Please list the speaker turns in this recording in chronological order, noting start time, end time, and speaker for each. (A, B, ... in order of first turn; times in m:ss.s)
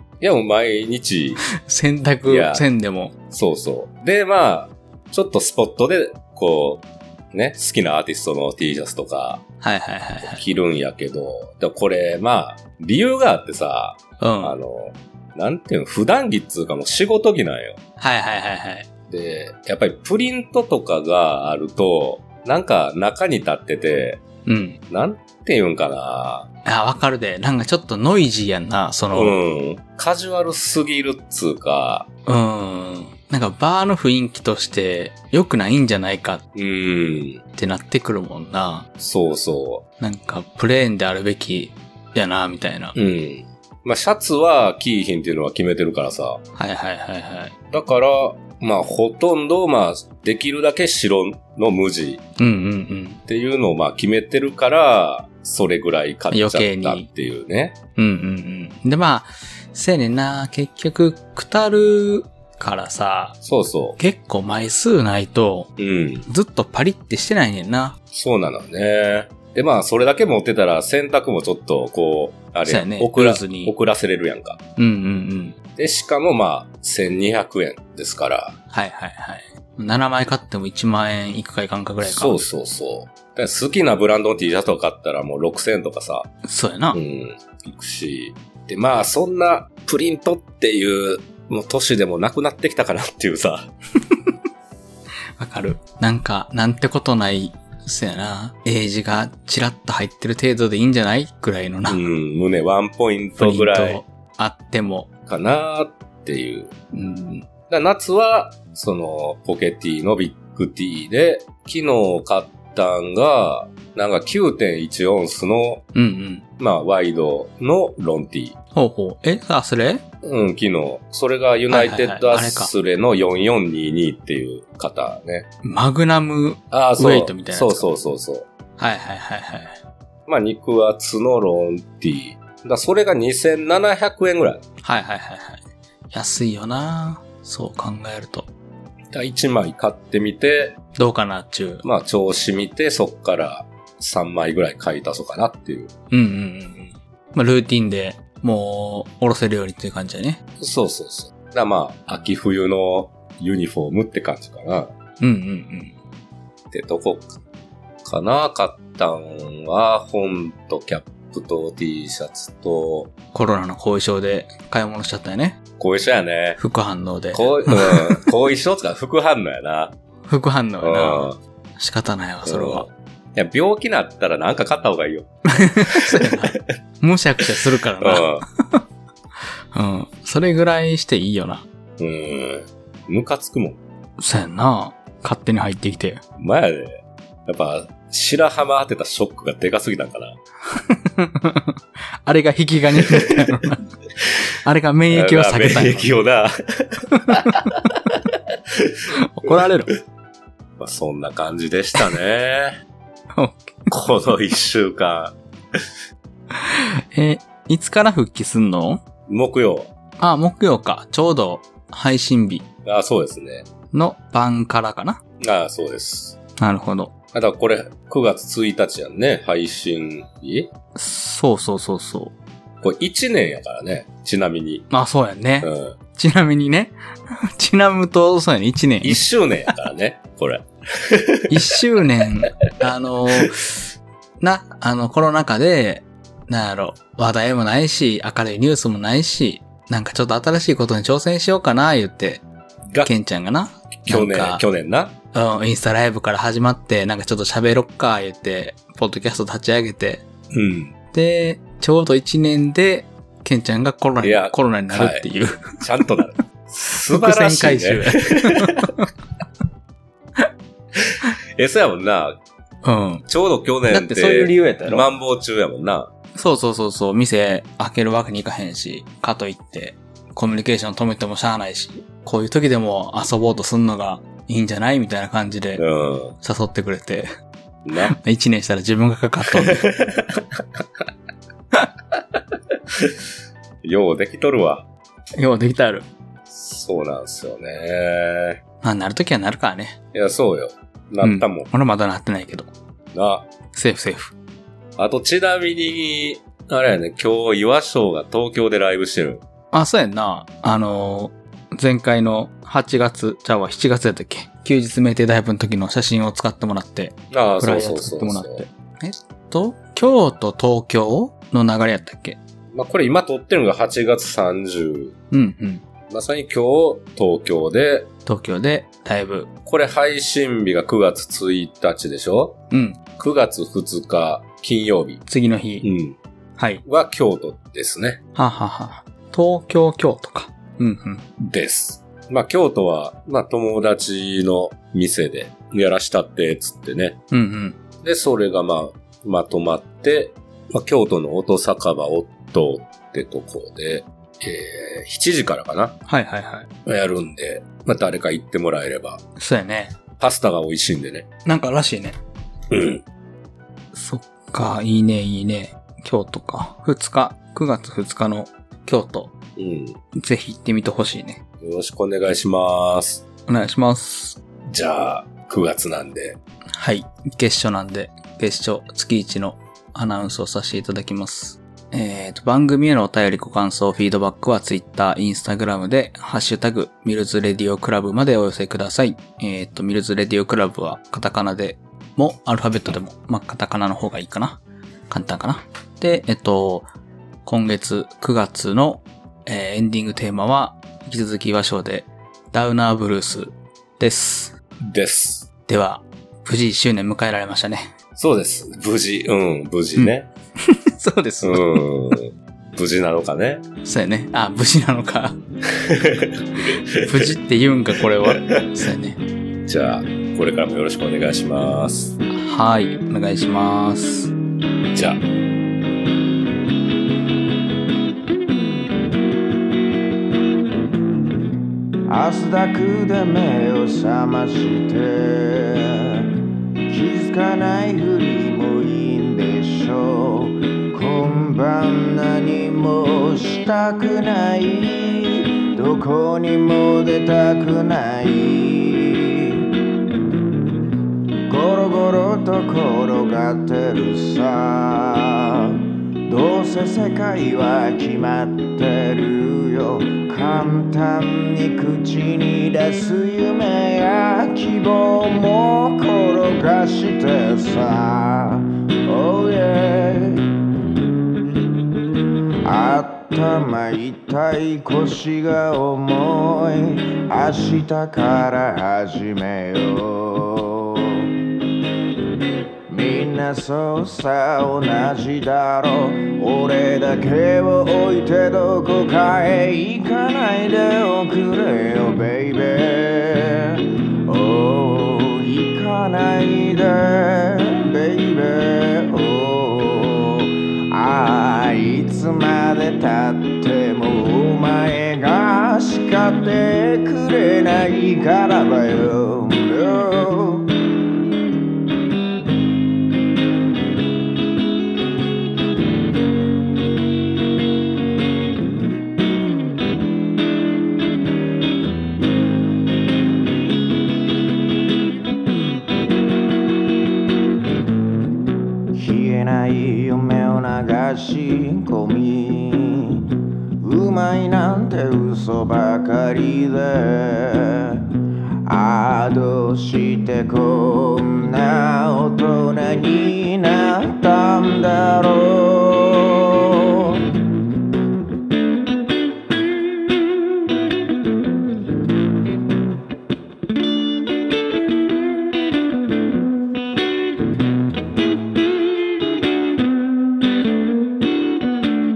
0:00.2-0:01.4 A
0:01.6-0:03.1 B
0:02.3-0:02.6 A
0:03.3-0:09.4 A
0:09.6-0:10.4 B
0:10.2-0:17.8 A
0:14.2-0:14.6 B
0:18.0-0:18.9 B
0:19.1-0:24.2 A
0:24.5-0:24.8 B
0:24.9-0:26.5 A
0:26.7-0:29.4 B
0:29.1-0:32.1 A
0:32.3-0:36.4 B
0:36.6-0:37.4 A
0:37.6-0:38.9 B
0:39.0-0:39.8 A
0:40.0-0:43.0 B
0:43.0-0:46.4 A
0:46.6-0:47.5 B
0:47.7-0:52.2 A
0:52.4-0:53.2 B
0:53.3-0:57.8 A
0:56.3-0:57.1 B
0:58.0-1:03.4 B
1:03.4-1:04.0 A
1:04.0-1:05.7 B
1:05.8-1:06.3 A
1:06.3-1:08.0 B
1:08.1-1:14.6 A
1:12.7-1:13.7 B
1:14.8-1:15.6 B
1:15.8-1:18.6 A
1:18.7-1:22.4 B
1:22.0-1:26.3 A
1:26.4-1:27.0 B
1:26.9-1:33.7 A
1:35.4-1:42.0 B
1:41.9-1:44.0 A
1:43.4-1:45.1 B
1:45.3-1:46.7 A
1:46.9-1:47.5 B
1:47.7-1:55.8 A
1:56.0-1:56.4 B
1:56.6-1:58.6 A
1:58.8-2:00.0 B
2:00.2-2:05.5 A
2:01.7-2:02.7 B
2:05.6-2:07.9 B
2:06.7-2:08.5 A
2:08.8-2:09.8 B
2:10.3-2:14.6 A
2:14.8-2:18.5 B
2:19.1-2:20.8 A
2:21.0-2:21.8 B
2:21.8-2:25.9 A
2:26.1-2:30.4 B
2:30.6-2:34.9 A
2:35.2-2:36.0 B
2:36.7-2:37.4 A
2:38.0-2:43.1 A
2:43.3-2:45.6 B
2:45.8-2:46.6 A
2:46.6-2:48.3 B
2:47.3-2:49.9 A
2:50.3-2:52.9 B
2:50.8-2:51.4 A
2:52.4-2:55.3 A
2:55.5-2:58.8 B
2:55.8-2:56.6 A
2:57.5-2:58.4 A
2:59.7-3:01.6 B
3:02.0-3:03.8 A
3:04.2-3:06.2 B
3:06.4-3:10.4 A
3:10.7-3:11.7 B
3:12.2-3:13.9 B
3:13.0-3:13.4 A
3:14.6-3:16.1 B
3:15.1-3:19.6 A
3:17.2-3:17.7 B
3:19.2-3:19.9 B
3:20.8-3:22.8 A
3:23.4-3:23.9 B
3:23.9-3:25.4 A
3:26.5-3:29.0 B
3:29.3-3:29.9 A
3:30.2-3:32.6 B
3:32.8-3:33.7 A
3:33.9-3:35.2 B
3:35.4-3:36.4 A
3:36.6-3:37.1 B
3:37.3-3:40.7 A
3:41.0-3:42.3 B
3:42.8-3:44.9 A
3:44.9-3:46.9 B
3:45.6-3:46.0 A
3:47.6-3:49.2 B
3:49.0-3:51.6 A
3:51.5-3:53.9 B
3:54.4-4:02.4 B
4:03.0-4:04.6 B
4:04.0-4:05.1 A
4:05.3-4:10.2 B
4:10.5-4:10.9 A
4:11.1-4:15.8 B
4:14.2-4:18.9 A
4:17.1-4:19.1 B
4:21.0-4:22.4 A
4:22.8-4:23.2 B
4:23.3-4:26.1 A
4:23.9-4:25.1 B
4:26.4-4:35.8 B
4:35.8-4:36.4 A
4:36.4-4:37.3 B
4:37.8-4:38.1 A
4:38.0-4:39.8 B
4:39.6-4:41.0 A
4:43.8-4:44.9 A
4:45.4-4:46.1 B
4:46.5-4:48.6 A
4:48.8-4:50.0 B
4:50.1-4:51.7 A
4:51.2-4:52.7 B
4:53.1-4:53.5 A
4:53.7-4:54.4 B
4:55.0-4:59.4 A
4:59.7-5:12.4 B
5:07.3-5:08.6 A
5:12.7-5:15.2 A
5:15.3-5:15.8 B
5:16.1-5:18.1 A
5:18.3-5:19.5 B
5:19.7-5:22.6 A
5:22.7-5:23.0 B
5:23.2-5:25.2 A
5:25.3-5:25.9 B
5:25.8-5:26.2 A
5:26.6-5:26.8 B
5:26.8-5:28.2 A
5:28.4-5:31.2 B
5:31.4-5:37.2 A
5:37.3-5:37.8 B
5:38.0-5:46.0 A
5:46.1-5:46.7 B
5:46.9-5:49.2 A
5:49.4-5:50.0 B
5:50.2-5:51.3 A
5:51.4-5:52.2 B
5:52.7-5:53.0 A
5:53.9-5:59.3 B
5:59.6-6:00.0 A
6:00.2-6:01.4 B
6:01.6-6:03.2 A
6:03.5-6:04.4 B
6:04.7-6:06.4 A
6:06.8-6:26.9 B
6:27.4-6:34.5 B
6:34.9-6:35.5 A
6:35.7-6:37.9 B
6:38.2-6:40.3 A
6:40.0-6:42.1 B
6:41.4-6:43.6 A
6:43.8-6:45.4 B
6:45.7-6:47.4 A
6:47.0-6:49.2 B
6:48.2-6:48.8 A
6:49.7-6:52.2 A
6:52.3-6:54.3 B
6:54.9-6:55.2 A
7:02.1-7:06.4 C
7:06.9-7:19.7 C
7:21.5-7:40.5 C
7:42.6-7:51.3 C
7:52.9-8:20.7 C
8:38.9-8:48.1 C
8:48.7-8:57.2 C